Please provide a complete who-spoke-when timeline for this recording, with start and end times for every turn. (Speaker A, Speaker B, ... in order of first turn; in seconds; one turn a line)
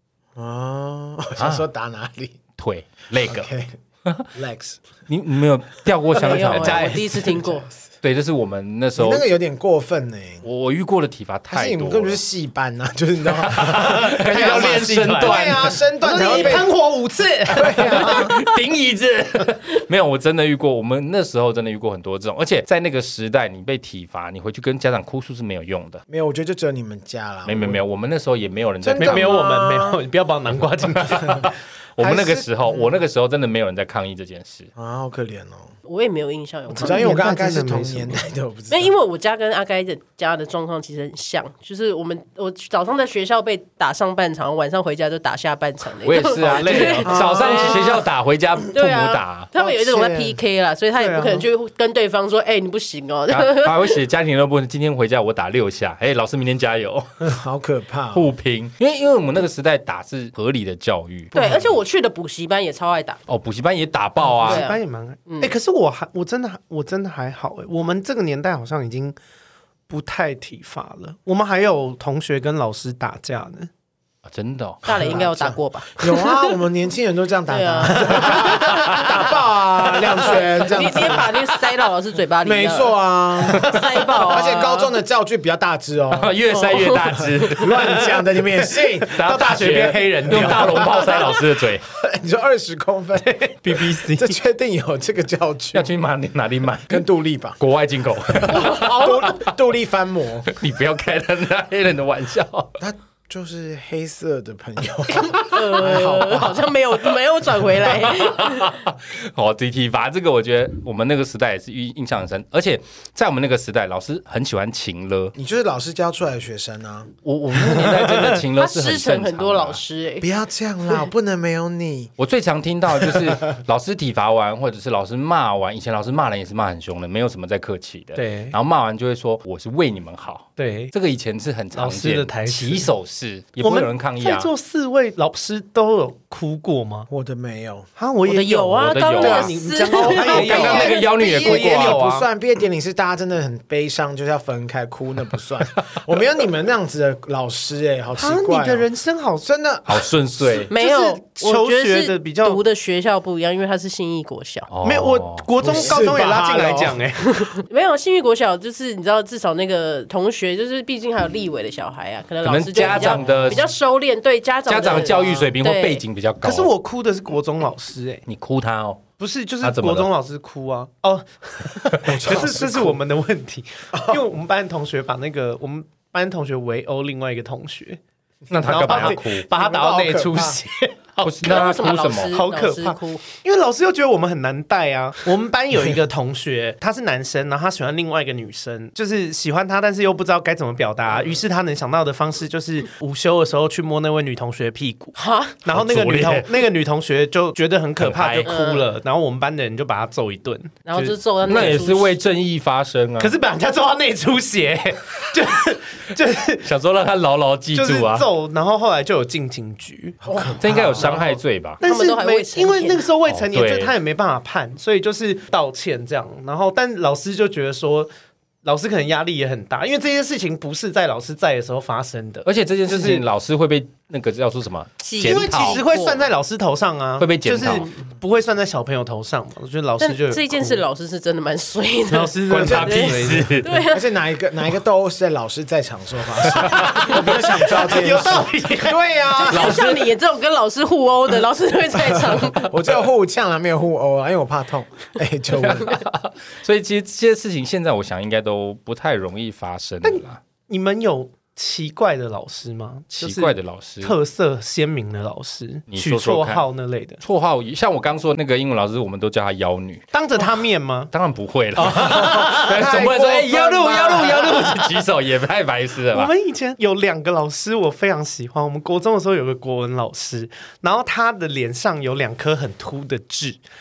Speaker A: 0.3-2.4
Speaker B: 1.4-1.6
Speaker B: 2.6-3.5
Speaker A: 3.2-3.7
Speaker A: 4.3-4.8
Speaker B: 5.1-7.0
Speaker C: 6.2-7.7
Speaker D: 6.5-7.2
Speaker B: 8.0-9.2
Speaker A: 9.0-10.4
Speaker B: 10.4-12.2
Speaker A: 11.5-16.7
Speaker B: 13.3-15.8
Speaker D: 13.9-18.3
Speaker A: 17.5-18.3
Speaker B: 17.7-26.0
Speaker A: 26.1-27.8
Speaker B: 27.4-29.4
Speaker A: 28.8-30.0
Speaker D: 29.0-31.5
Speaker B: 30.9-34.7
Speaker A: 32.0-33.0
Speaker A: 34.8-35.7
Speaker C: 35.9-37.2
Speaker D: 36.7-38.2
Speaker A: 36.8-38.9
Speaker C: 38.7-48.0
Speaker B: 46.0-49.5
Speaker D: 46.4-47.2
Speaker A: 47.0-47.9
Speaker C: 48.7-54.0
Speaker A: 49.5-50.4
Speaker D: 51.0-51.4
Speaker B: 53.3-57.1
Speaker A: 57.2-58.3
Speaker B: 58.1-61.4
Speaker C: 61.3-63.2
Speaker B: 63.3-64.7
Speaker D: 64.2-69.2
Speaker C: 64.4-65.5
Speaker D: 69.9-73.7
Speaker B: 74.3-74.8
Speaker C: 74.8-76.6
Speaker A: 75.0-81.5
Speaker C: 77.5-79.3
Speaker D: 78.3-79.1
Speaker C: 80.0-85.0
Speaker A: 82.4-89.6
Speaker D: 83.6-84.1
Speaker B: 86.1-88.0
Speaker C: 86.5-87.5
Speaker D: 87.7-91.2
Speaker B: 89.1-91.8
Speaker A: 91.1-95.9
Speaker D: 93.2-94.4
Speaker B: 95.7-97.0
Speaker A: 96.9-97.6
Speaker B: 97.6-99.5
Speaker A: 98.2-100.5
Speaker C: 98.5-99.3
Speaker B: 100.5-102.8
Speaker A: 102.8-106.7
Speaker C: 105.3-108.8
Speaker B: 107.9-115.3
Speaker A: 115.3-117.1
Speaker B: 117.2-119.8
Speaker D: 117.8-118.3
Speaker C: 118.6-120.3
Speaker A: 120.2-122.1
Speaker B: 122.2-134.5
Speaker D: 128.2-128.6
Speaker D: 130.6-130.9
Speaker D: 131.7-132.9
Speaker D: 133.6-137.1
Speaker A: 137.1-137.9
Speaker D: 138.0-142.3
Speaker C: 138.2-141.2
Speaker B: 138.8-142.0
Speaker A: 139.9-148.9
Speaker D: 148.2-149.5
Speaker A: 149.4-150.6
Speaker B: 149.9-150.7
Speaker D: 150.7-152.6
Speaker C: 150.7-154.7
Speaker B: 154.7-155.5
Speaker D: 154.8-157.5
Speaker A: 155.6-157.0
Speaker C: 157.3-166.0
Speaker B: 162.4-163.7
Speaker D: 162.8-163.6
Speaker B: 164.7-166.7
Speaker D: 164.9-165.4
Speaker D: 166.4-168.2
Speaker B: 168.2-169.0
Speaker D: 169.2-178.0
Speaker B: 169.6-170.1
Speaker A: 172.0-173.0
Speaker A: 173.9-174.2
Speaker B: 178.5-179.5
Speaker A: 178.7-180.6
Speaker D: 178.7-181.7
Speaker B: 181.2-182.4
Speaker C: 181.4-183.2
Speaker D: 182.3-201.1
Speaker C: 195.2-195.6
Speaker B: 195.7-196.5
Speaker B: 198.0-198.5
Speaker C: 198.4-198.8
Speaker C: 200.8-202.2
Speaker B: 201.4-203.3
Speaker D: 203.2-206.7
Speaker B: 206.6-208.3
Speaker D: 207.7-218.1
Speaker A: 210.2-211.2
Speaker B: 210.6-211.8
Speaker C: 211.8-213.1
Speaker B: 213.2-213.9
Speaker D: 218.6-223.2
Speaker B: 222.4-225.8
Speaker C: 225.0-226.3
Speaker D: 225.2-230.8
Speaker B: 227.2-227.9
Speaker C: 230.0-234.1
Speaker D: 232.1-233.6
Speaker B: 232.5-233.7
Speaker A: 233.9-239.8
Speaker D: 236.7-239.0
Speaker B: 236.7-237.2
Speaker C: 239.4-242.8
Speaker B: 239.5-240.1
Speaker A: 241.9-246.0
Speaker B: 245.6-250.4
Speaker D: 250.0-257.2
Speaker B: 253.1-254.1
Speaker B: 255.9-256.6
Speaker B: 257.2-260.0
Speaker D: 260.1-261.1
Speaker B: 261.1-266.3
Speaker D: 261.8-263.0
Speaker A: 261.9-264.4
Speaker D: 264.0-264.8
Speaker D: 266.1-273.6